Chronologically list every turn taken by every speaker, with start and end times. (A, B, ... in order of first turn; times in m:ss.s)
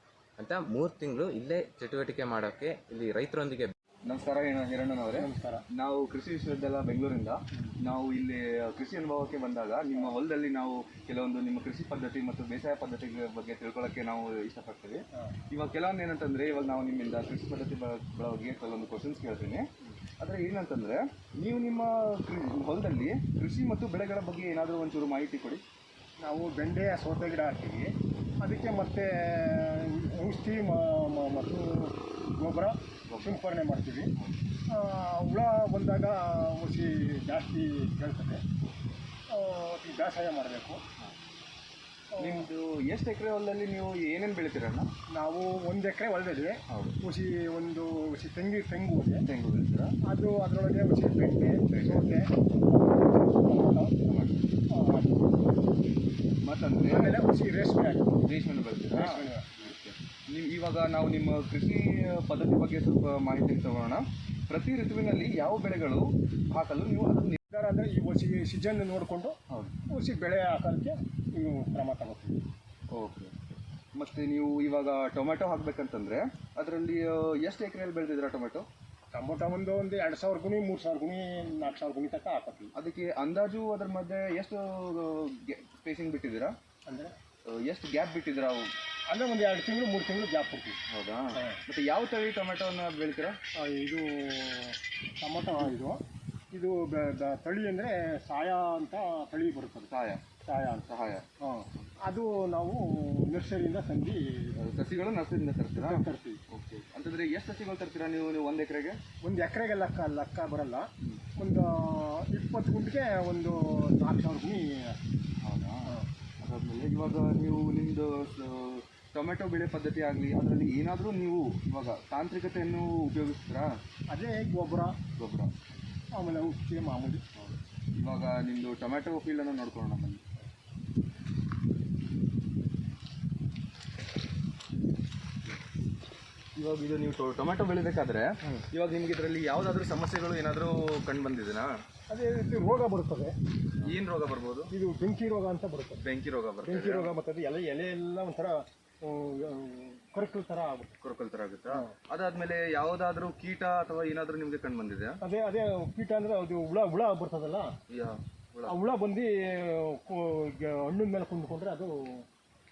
0:00.4-0:03.7 A
0:04.0-0:19.7 B
0:05.2-0:05.6 C
0:20.2-0:25.6 B
0:26.2-0:34.1 C
0:33.1-0:33.4 B
0:34.7-0:38.4 C
0:39.3-0:40.8 C
0:42.2-0:42.5 C
0:42.2-0:44.9 B
0:45.1-0:49.2 C
0:46.7-0:47.0 B
0:49.2-0:50.0 B
0:50.1-0:54.0 C
0:51.7-0:52.1 B
0:54.0-0:54.5 B
0:54.7-0:55.4 C
0:56.4-0:57.2 B
0:56.9-0:58.1 C
0:58.2-1:07.4 B
0:58.9-0:59.6 C
1:07.5-1:09.4 C
1:09.5-1:09.8 B
1:09.9-1:12.4 C
1:12.9-1:13.4 B
1:13.9-1:18.7 B
1:19.1-1:22.7 C
1:22.8-1:26.6 B
1:26.9-1:27.1 C
1:27.5-1:28.7 B
1:29.1-1:30.8 C
1:30.9-1:33.4 B
1:33.6-1:36.0 C
1:36.5-1:39.9 C
1:39.9-1:41.9 B
1:40.5-1:40.9 C
1:41.4-1:44.5 C
1:44.5-1:49.0 B
1:45.8-1:46.4 C
1:49.2-1:55.0 C
1:55.4-2:03.7 B
2:04.1-2:05.0 C
2:05.2-2:05.5 B
2:06.1-2:07.2 C
2:07.4-2:10.2 B
2:16.6-2:21.7 B
2:22.1-2:23.3 C
2:23.8-2:24.7 B
2:24.7-2:26.0 C
2:26.0-2:27.1 B
2:26.6-2:30.9 C
2:31.0-2:35.2 B
2:35.2-2:37.7 C
2:37.9-2:38.8 B
2:38.7-2:42.2 C